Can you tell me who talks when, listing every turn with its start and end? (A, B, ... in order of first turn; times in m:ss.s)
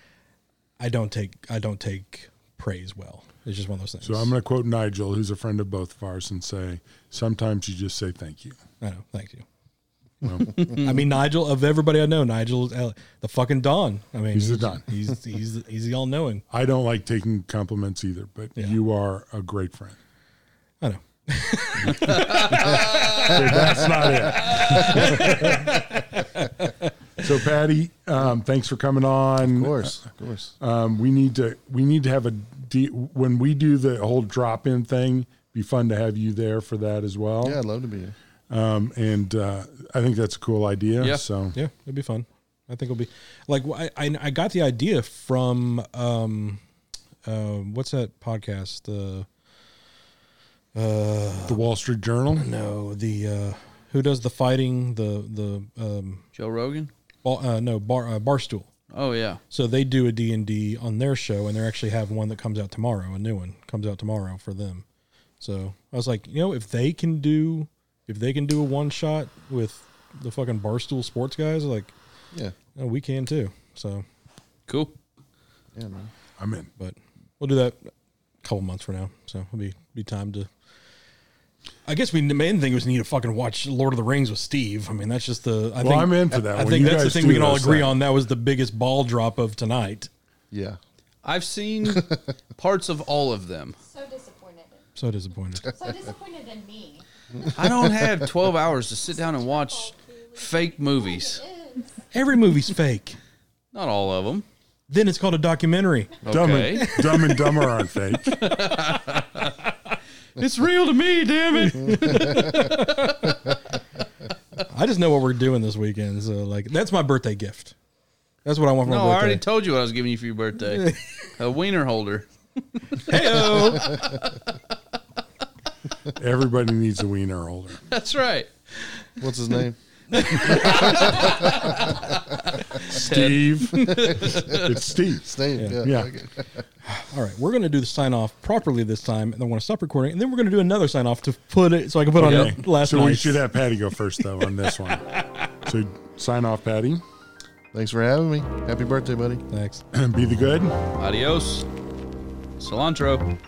0:00.8-0:04.3 A
0:04.0-0:08.6 B
0:08.8-0:09.4 A
0:10.2-0:10.5 B
0:10.2-0:16.4 A
0:14.3-0:14.9 B
0:16.5-0:20.0 B
0:20.8-0:23.7 A
0:22.1-0:23.3 C
0:23.2-0:26.0 B
0:24.4-0:24.8 C
0:24.6-0:26.9 A
0:27.2-0:30.0 B
0:29.4-0:30.5 D
0:30.6-0:37.6 B
0:37.4-0:38.1 D
0:38.5-0:41.6 B
0:41.5-0:46.6 A
0:47.2-0:49.3 A
0:50.7-0:51.6 A
0:51.5-0:52.5 B
0:52.4-0:56.2 A
0:56.3-0:56.9 C
0:57.2-0:58.7 A
0:58.9-0:59.4 C
0:59.5-1:04.8 A
1:05.4-1:11.9 A
1:12.7-1:14.0 A
1:14.7-1:15.0 C
1:15.7-1:16.1 D
1:16.4-1:16.7 B
1:16.8-1:17.9 A
1:18.4-1:20.5 A
1:21.8-1:30.1 A
1:25.8-1:28.0 B
1:30.5-1:30.8 D
1:31.2-1:33.8 C
1:31.9-1:32.2 D
1:33.8-1:34.8 E
1:35.0-1:35.7 A
1:35.6-1:37.5 E
1:37.5-1:41.4 C
1:37.6-1:38.0 D
1:39.2-1:42.0 E
1:42.1-1:43.2 A
1:43.7-1:44.4 C
1:44.9-1:47.5 A
1:46.2-1:47.0 C
1:46.3-1:48.4 B
1:48.3-1:49.7 C
1:50.4-1:52.4 C
1:51.5-1:53.5 A
1:54.6-1:57.7 A
1:58.4-1:59.4 A
1:58.8-2:04.5 C
2:03.0-2:04.1 A
2:06.2-2:07.8 B
2:07.9-2:08.5 C
2:09.2-2:11.8 D
2:10.1-2:11.2 A
2:10.3-2:14.8 C
2:12.9-2:16.1 B
2:15.2-2:16.6 D
2:15.6-2:15.8 A
2:16.9-2:23.5 A
2:22.1-2:27.0 B
2:22.2-2:22.6 C
2:27.7-2:29.4 D
2:29.5-2:29.8 A
2:29.9-2:30.8 B
2:31.0-2:31.7 C
2:32.6-2:33.3 C